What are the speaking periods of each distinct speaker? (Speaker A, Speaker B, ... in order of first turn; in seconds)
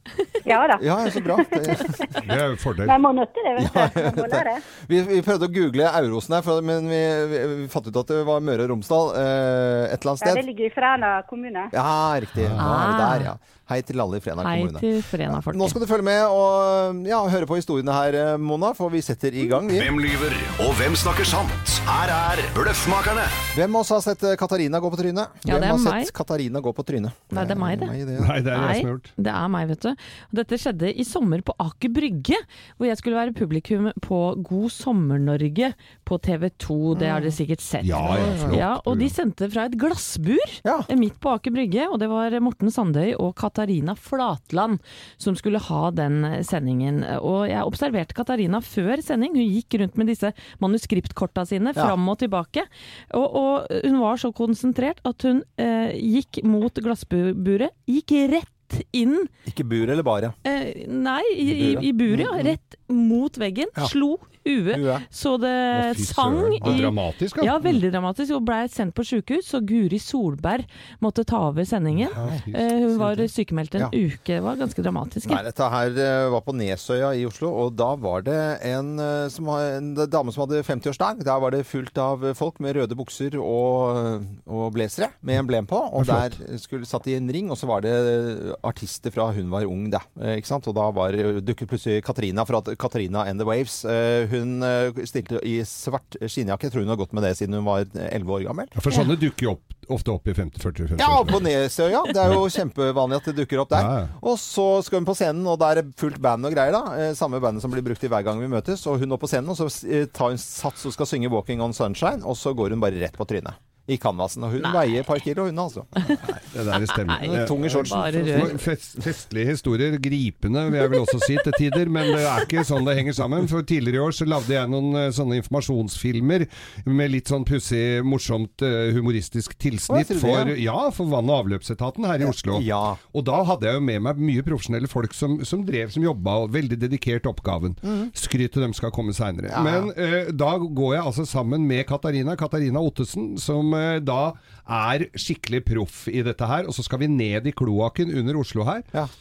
Speaker A: 0.5-2.2, 2.8-4.6, 10.2-11.7
Speaker B: 0.8-2.2, 3.6-10.4, 11.7-19.9, 23.5-28.3, 36.9-37.4, 38.0-38.6, 40.6-40.9, 59.5-60.4, 61.4-62.6, 64.7-65.0, 66.6-66.9, 72.2-72.4, 75.2-98.7, 101.0-116.1, 117.2-118.6, 129.9-130.6, 132.2-133.0, 137.8-138.1, 139.5-139.9
Speaker C: 2.2-3.0, 12.4-12.6, 28.2-29.1, 37.8-39.1, 65.7-67.6, 72.0-73.2, 86.0-86.3, 98.8-101.4, 103.7-104.1, 116.2-148.9
Speaker D: 12.6-13.3, 14.4-15.8, 25.4-26.1, 27.3-27.9, 28.5-59.3, 60.5-75.4, 114.6-115.1, 116.7-118.6, 120.9-121.4
Speaker E: 19.7-23.4